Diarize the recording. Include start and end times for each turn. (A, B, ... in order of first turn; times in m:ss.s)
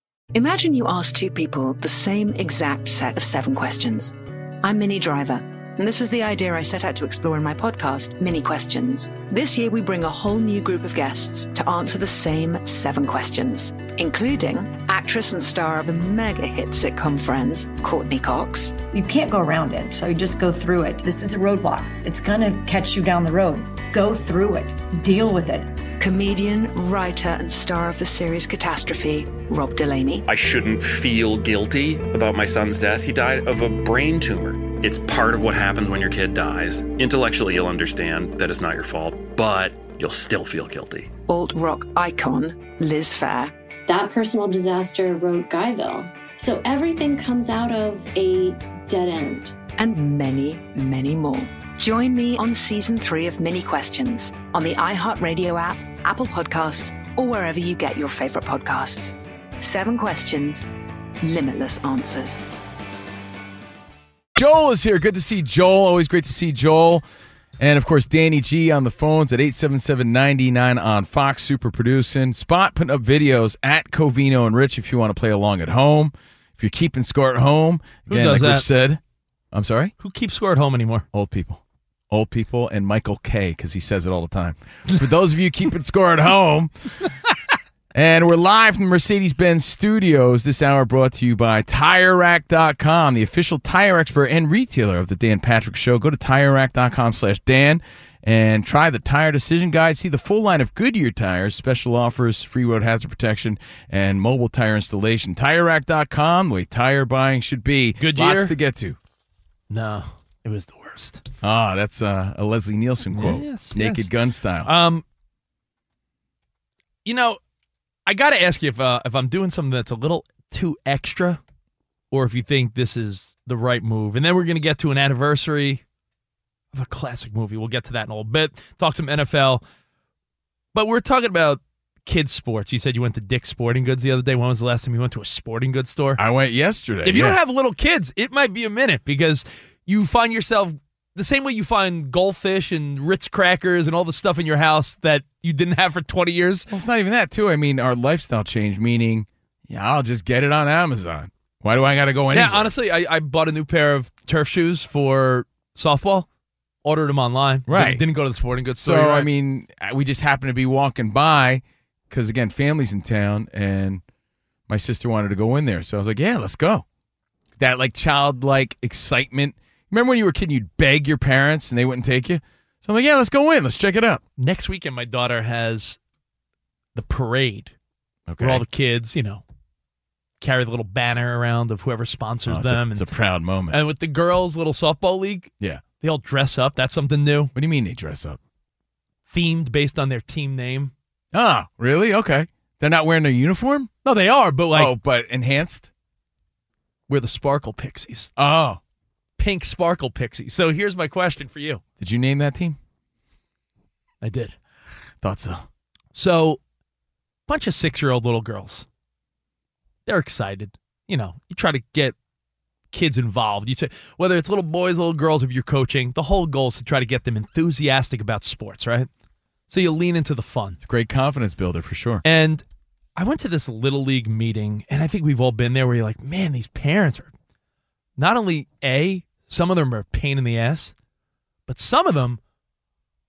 0:00.3-0:18.8 A
0:18.8-0:25.8 B
0:26.0-0:30.2 A
0:30.3-0:41.1 C
0:41.3-0:43.5 A
0:43.9-0:49.6 D
0:49.8-1:00.7 A
1:01.2-1:02.4 A
1:04.4-1:07.0 E
1:07.6-1:19.0 E
1:18.1-1:18.7 F
1:19.5-1:19.9 E
1:20.0-1:21.0 F
1:21.1-1:26.7 E
1:27.9-1:49.0 E
1:48.0-1:48.5 F
1:49.7-1:51.2 F
1:51.4-1:54.7 E
1:53.1-1:54.1 F
1:54.6-1:55.0 F
1:57.0-1:57.4 F
1:58.1-2:01.4 F
2:02.1-2:05.8 F
2:06.7-2:09.6 F
2:10.7-2:16.2 F
2:16.2-2:17.4 E
2:17.0-2:26.7 F
2:26.7-2:32.7 E
2:32.3-2:36.3 F
2:36.8-2:39.3 F
2:37.7-2:38.0 E
2:38.8-2:44.0 E
2:44.7-2:46.8 E
2:47.6-2:54.2 E
2:54.4-2:56.0 F
2:57.0-2:57.7 F
2:58.3-2:58.6 E
2:58.4-2:59.4 F
3:00.4-3:03.1 F
3:02.5-3:03.8 E
3:03.7-3:07.5 F
3:07.6-3:08.4 E
3:09.3-3:10.9 F
3:11.3-3:13.9 E
3:14.0-3:14.9 F
3:14.7-3:15.9 E
3:17.1-3:18.3 F
3:18.4-3:18.8 E
3:19.4-3:21.8 F
3:22.0-3:22.8 E
3:24.2-3:24.5 F
3:25.2-3:25.6 E
3:26.1-3:26.6 F
3:27.5-3:28.8 F
3:30.1-3:32.2 F
3:32.9-3:39.1 F
3:39.7-3:40.8 F
3:40.8-3:42.2 E
3:42.2-3:42.6 F
3:43.2-3:47.3 F
3:48.2-3:50.9 F
3:51.7-3:52.4 F